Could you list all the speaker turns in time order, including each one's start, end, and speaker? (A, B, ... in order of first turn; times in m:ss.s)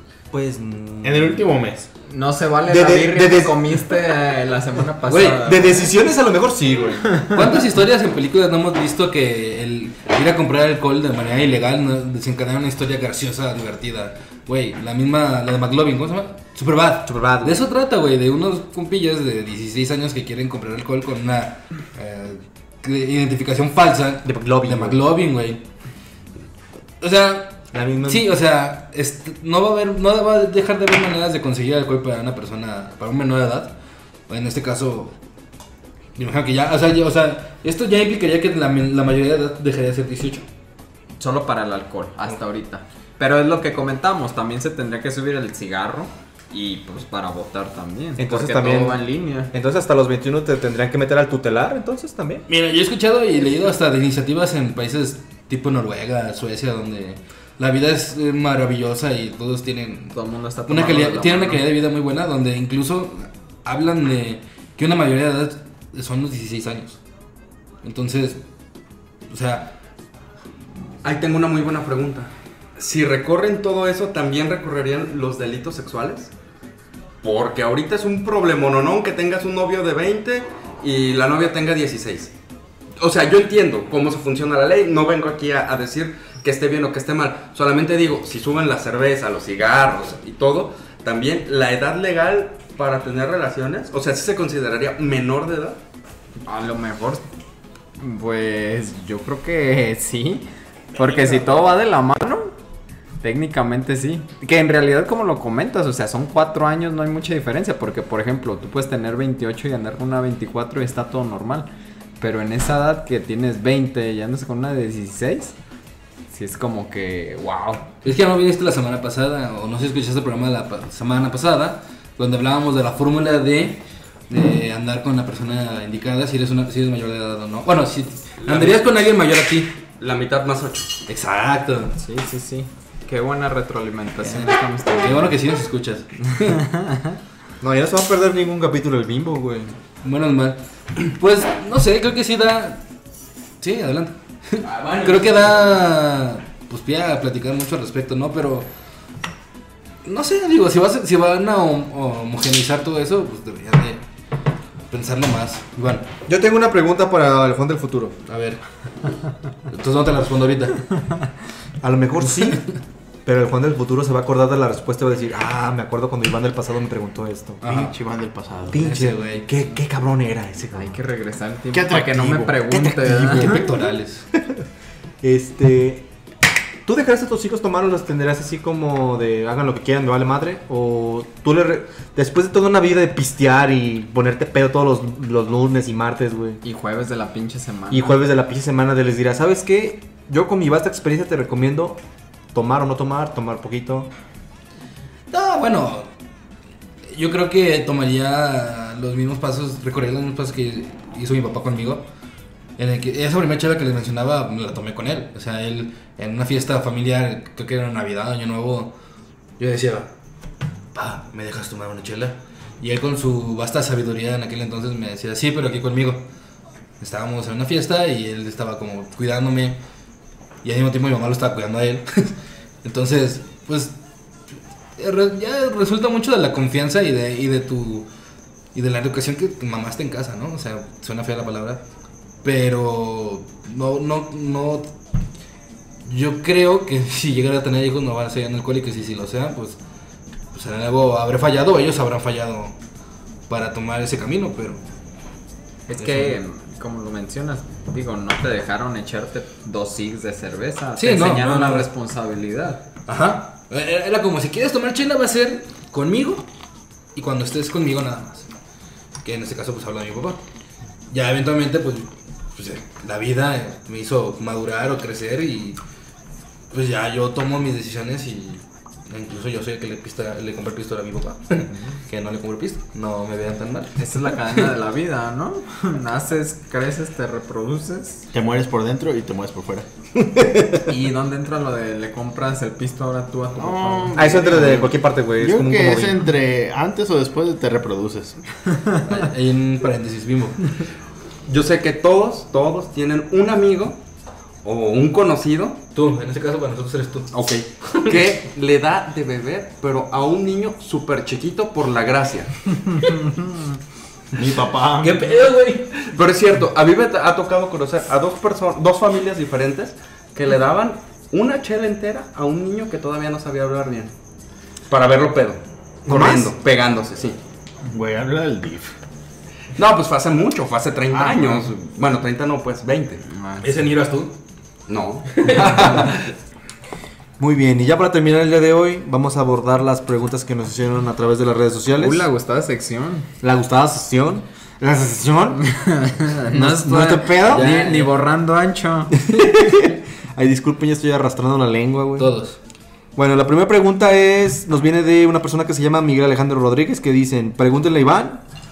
0:00.3-0:01.5 A
0:01.0-0:01.9 B
0:02.1-0:05.9 C
0:02.7-0:03.6 A
0:05.1-0:05.4 D
0:05.4-0:07.2 A
0:07.3-0:25.6 D
0:17.0-0:17.6 A
0:24.2-0:25.0 A
0:27.0-0:33.7 D
0:27.7-0:28.3 A
0:34.3-0:35.2 D
0:36.2-0:40.4 D
0:41.2-0:49.5 C
0:48.2-0:52.4 A
0:52.5-1:07.0 D
1:00.1-1:01.6 C
1:07.8-1:08.4 D
1:09.3-1:09.7 D
1:11.0-1:16.3 E
1:17.2-1:22.3 E
1:23.0-1:35.8 E
1:36.4-1:37.3 C
1:38.0-1:42.6 C
1:43.2-1:51.7 C
1:52.2-1:55.6 C
1:56.3-1:57.9 C
1:58.0-2:09.7 D
2:08.4-2:08.8 E
2:10.0-2:11.0 E
2:11.1-2:11.9 D
2:12.0-2:15.4 C
2:14.2-2:16.6 D
2:16.3-2:17.2 C
2:17.6-2:19.8 A
2:20.0-2:22.8 D
2:23.6-2:28.7 D
2:24.6-2:25.1 E
2:30.0-2:34.0 D
2:34.9-2:36.1 D
2:36.3-2:38.2 A
2:38.2-2:38.6 D
2:39.6-2:41.1 D
2:41.8-2:42.6 A
2:43.2-2:47.6 A
2:47.6-2:47.9 D
2:47.6-2:48.8 B
2:48.7-2:51.0 A
2:48.7-2:49.6 D
2:50.7-2:53.7 C
2:51.7-2:52.6 B
2:52.6-2:53.8 A
2:53.3-2:54.2 D
2:54.4-2:54.6 A
2:55.2-2:56.1 A
2:56.8-3:06.6 A
3:06.6-3:08.2 C
3:07.9-3:12.0 A
3:12.5-3:14.1 A
3:15.3-3:16.1 D
3:17.1-3:22.0 D
3:22.8-3:28.9 D
3:29.6-3:30.1 D
3:30.9-3:36.2 D
3:37.0-3:39.8 D
3:40.6-3:42.3 D
3:42.8-3:43.9 D
3:45.0-3:48.1 D
3:48.7-3:51.8 D
3:52.4-3:54.9 D
3:56.0-3:59.8 D
4:00.5-4:02.8 D
4:03.5-4:04.8 D
4:05.9-4:12.8 C
4:06.0-4:06.4 D
4:11.0-4:11.9 D
4:13.1-4:16.4 D
4:17.1-4:18.5 D
4:19.2-4:20.4 D
4:21.1-4:25.8 D
4:26.7-4:34.0 D
4:34.0-4:38.3 C
4:38.3-4:39.9 B
4:40.2-4:40.8 A
4:40.9-4:44.8 C
4:43.6-4:48.4 B
4:44.1-4:46.2 A
4:48.9-4:50.8 D
4:51.5-4:54.0 E
4:54.6-4:55.8 E
4:55.9-4:58.2 D
4:57.3-5:02.8 E
5:04.3-5:05.4 B
5:05.0-5:06.1 D
5:06.0-5:14.1 E
5:14.9-5:17.4 E
5:16.1-5:16.5 A
5:17.9-5:18.9 B
5:19.8-5:23.2 E
5:21.1-5:21.7 B
5:23.3-5:23.8 C
5:23.6-5:24.3 D
5:24.9-5:26.0 E
5:25.3-5:26.3 D
5:27.4-5:32.2 A
5:32.0-5:33.3 C
5:33.4-5:35.6 A
5:35.6-5:39.2 C
5:36.5-5:37.8 A
5:37.4-5:38.1 D
5:39.1-5:42.3 A
5:42.2-5:42.6 D
5:43.2-5:48.4 A